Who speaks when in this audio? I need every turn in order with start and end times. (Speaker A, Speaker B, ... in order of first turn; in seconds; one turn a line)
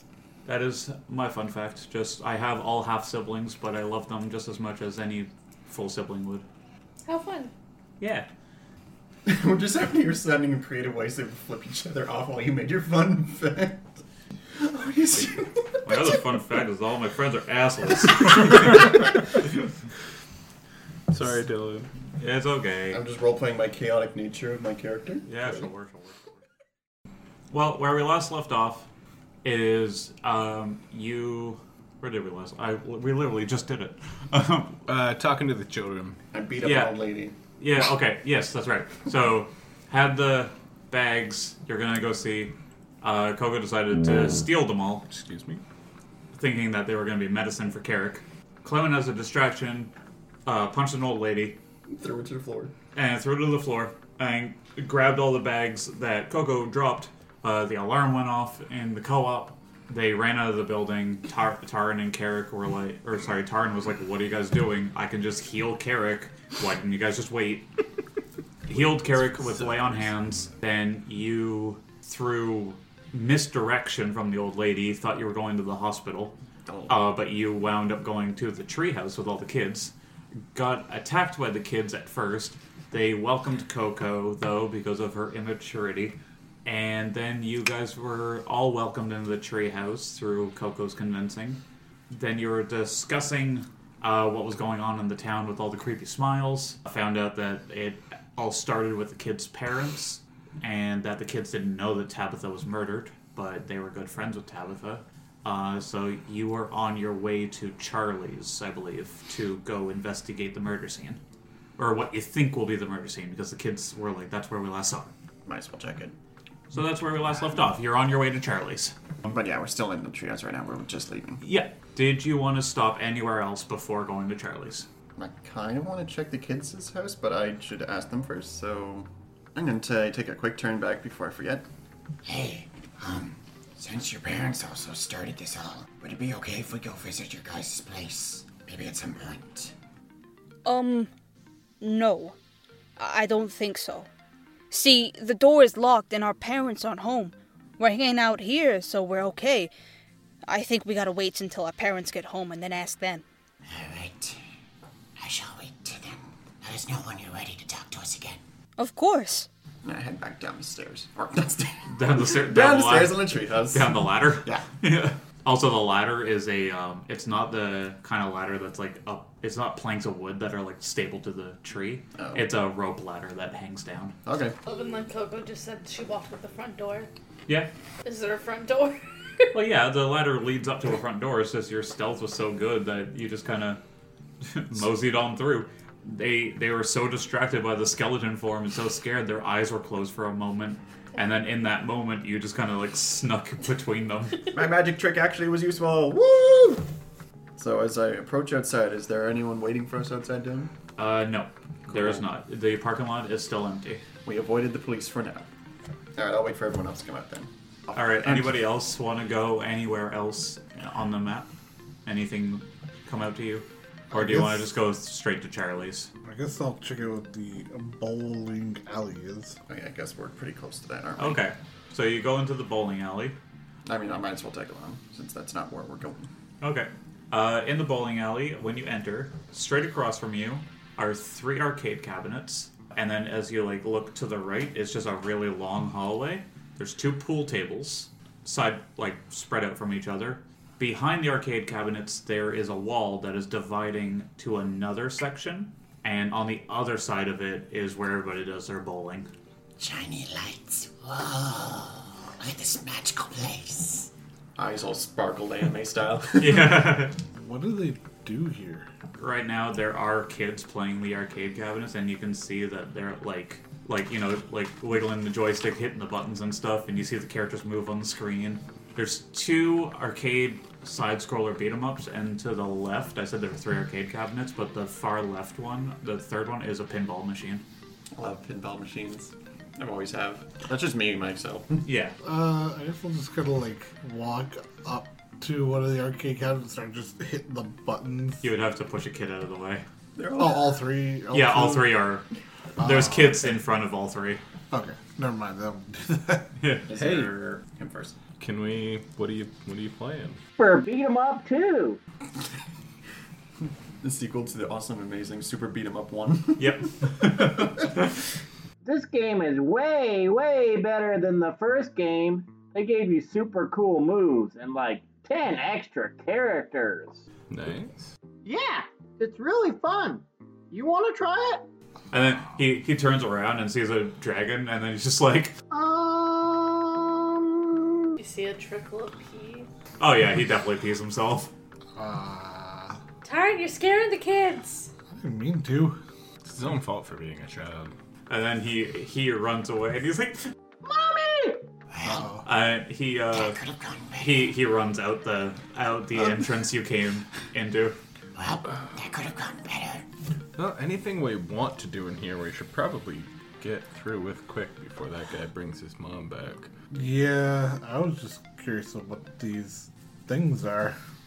Speaker A: 0.5-6.5
Speaker B: 7.1-7.5
Speaker A: 8.0-8.3
Speaker C: 9.3-13.9
Speaker C: 14.6-16.2
Speaker A: 15.2-18.9
Speaker D: 21.1-21.9
Speaker A: 22.2-23.0
Speaker C: 22.9-25.3
Speaker A: 25.3-26.3
Speaker A: 27.5-28.9
Speaker A: 29.4-34.8
Speaker D: 34.9-36.2
Speaker C: 36.3-37.4
Speaker A: 36.6-37.0
Speaker A: 37.6-45.1
Speaker D: 45.1-45.6
Speaker A: 46.3-49.9
Speaker A: 50.5-51.6
Speaker C: 51.9-52.7
Speaker A: 53.0-67.7
Speaker A: 68.7-76.3
Speaker C: 76.7-76.9
Speaker A: 76.9-79.9
Speaker A: 80.5-111.2
Speaker A: 111.8-115.1
Speaker C: 115.5-116.2
Speaker A: 116.7-119.3
Speaker C: 119.3-121.4
Speaker A: 121.4-124.9
Speaker C: 125.2-131.7
Speaker E: 132.2-139.7
Speaker F: 140.7-141.1
Speaker F: 141.8-142.4
Speaker F: 143.0-144.1
Speaker F: 144.7-149.7
Speaker F: 150.5-153.2
Speaker E: 153.7-154.4
Speaker E: 155.2-158.4
Speaker F: 158.8-159.5
Speaker C: 159.8-164.7
Speaker A: 161.9-174.2
Speaker C: 172.2-172.5
Speaker C: 174.3-174.6
Speaker B: 174.7-177.1
Speaker B: 178.0-179.5
Speaker A: 179.5-183.8
Speaker A: 184.4-194.5
Speaker C: 194.5-196.9
Speaker C: 197.6-200.7
Speaker A: 201.0-204.0
Speaker C: 201.9-202.2
Speaker C: 204.2-205.5
Speaker C: 206.2-208.6
Speaker A: 207.9-211.5
Speaker A: 212.1-216.1
Speaker G: 214.1-214.4
Speaker G: 216.2-219.6
Speaker C: 219.7-221.4
Speaker A: 221.2-223.4
Speaker C: 223.9-226.3
Speaker A: 226.6-249.3
Speaker E: 249.8-254.1
Speaker C: 254.6-256.9
Speaker A: 256.4-257.1
Speaker G: 257.3-258.9
Speaker A: 259.2-277.6
Speaker C: 278.2-281.8
Speaker A: 281.9-282.2
Speaker G: 282.2-288.5
Speaker A: 288.4-289.9
Speaker C: 290.2-290.7
Speaker G: 290.4-292.0
Speaker A: 291.3-292.3
Speaker G: 292.8-293.3
Speaker A: 292.8-294.4
Speaker G: 294.7-296.5
Speaker A: 296.6-296.9
Speaker C: 296.9-298.2
Speaker D: 297.0-297.3
Speaker D: 298.4-300.4
Speaker H: 300.6-302.0
Speaker C: 304.0-306.9
Speaker A: 306.6-307.8
Speaker H: 308.8-317.2
Speaker D: 317.5-318.1
Speaker H: 318.4-321.6
Speaker A: 322.1-325.6
Speaker H: 325.7-328.1
Speaker B: 328.2-329.7
Speaker A: 330.0-331.5
Speaker G: 332.0-333.0
Speaker B: 333.2-334.9
Speaker G: 335.1-336.0
Speaker D: 336.4-337.9
Speaker A: 338.3-340.5
Speaker H: 340.8-341.6
Speaker E: 341.9-342.3
Speaker G: 342.0-342.4
Speaker A: 342.4-343.6
Speaker E: 343.3-344.4
Speaker A: 344.1-348.0
Speaker E: 348.4-350.1
Speaker D: 350.6-356.7
Speaker G: 356.9-361.0